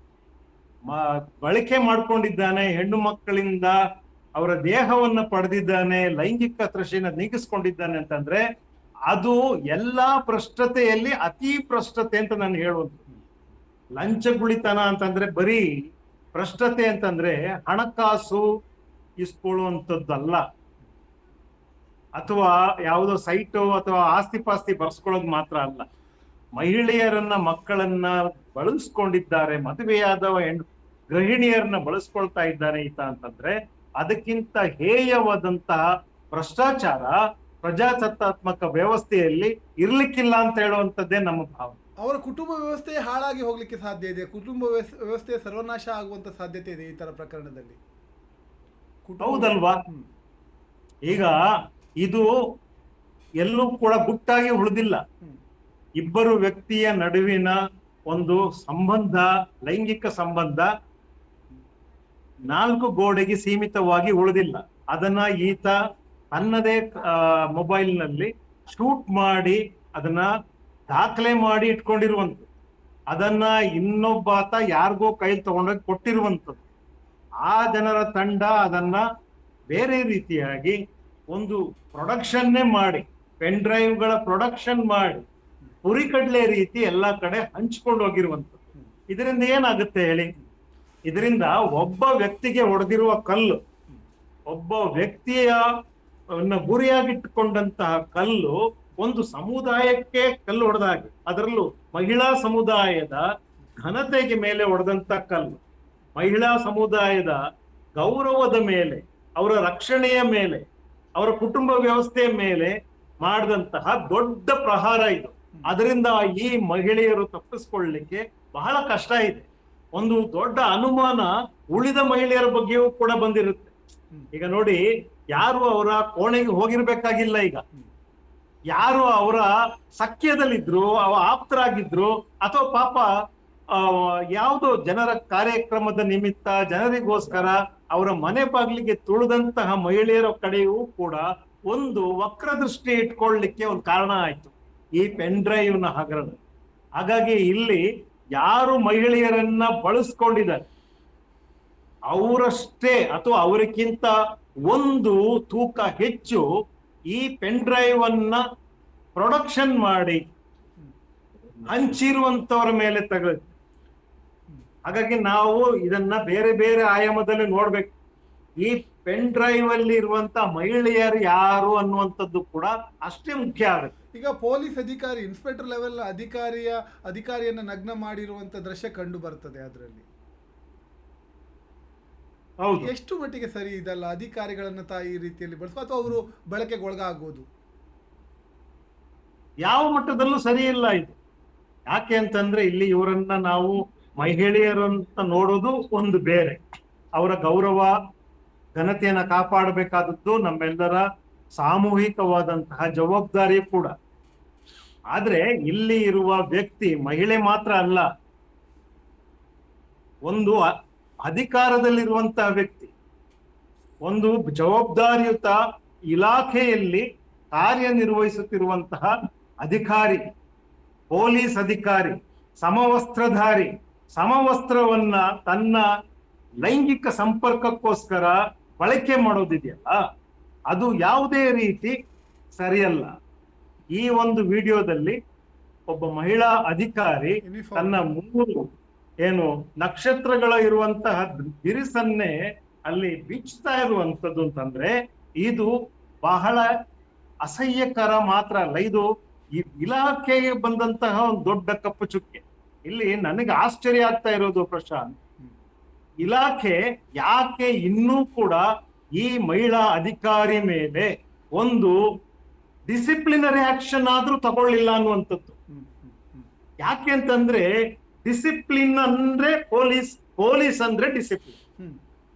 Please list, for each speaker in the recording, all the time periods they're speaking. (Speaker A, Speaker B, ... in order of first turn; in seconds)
Speaker A: 0.9-3.8, 4.3-8.4, 9.1-13.0, 14.0-15.7, 16.3-18.4, 19.2-20.4, 22.2-25.9, 26.6-35.8, 36.3-41.8, 49.2-49.8, 51.1-51.4, 52.0-52.3, 53.4-55.0, 56.0-57.6, 58.1-60.7, 62.5-65.8, 66.3-70.3, 70.9-72.5, 73.1-76.6, 77.4-79.0, 79.7-80.8, 81.3-85.2, 85.8-90.3, 91.1-93.6, 94.5-95.6, 96.4-103.2, 103.8-105.6, 106.1-107.4, 108.0-110.6, 111.2-123.7, 124.3-124.8, 125.3-127.6, 128.7-133.1, 133.7-146.4, 147.0-147.8, 148.3-150.6, 152.1-154.1, 154.7-156.4, 157.1-158.4, 159.2-160.2, 161.7-163.4, 164.8-167.9, 168.6-173.9, 182.6-182.9, 189.6-191.2, 191.9-196.6, 197.2-197.9, 198.8-201.0, 201.6-203.9, 205.1-208.1, 210.3-210.7, 211.2-212.9, 214.1-215.6, 216.1-219.1, 219.6-220.2, 221.1-225.9, 226.6-229.9, 230.7-231.9, 232.6-233.1, 233.9-235.2, 235.9-238.7, 239.2-242.3, 242.9-245.7, 246.2-246.7, 247.4-255.1, 256.2-258.6, 259.2-261.9, 262.9-265.6, 266.8-267.7, 268.2-271.6
Speaker B: 42.0-47.8, 49.1-50.1, 174.1-180.1, 182.8-187.4, 237.4-238.0, 265.7-266.5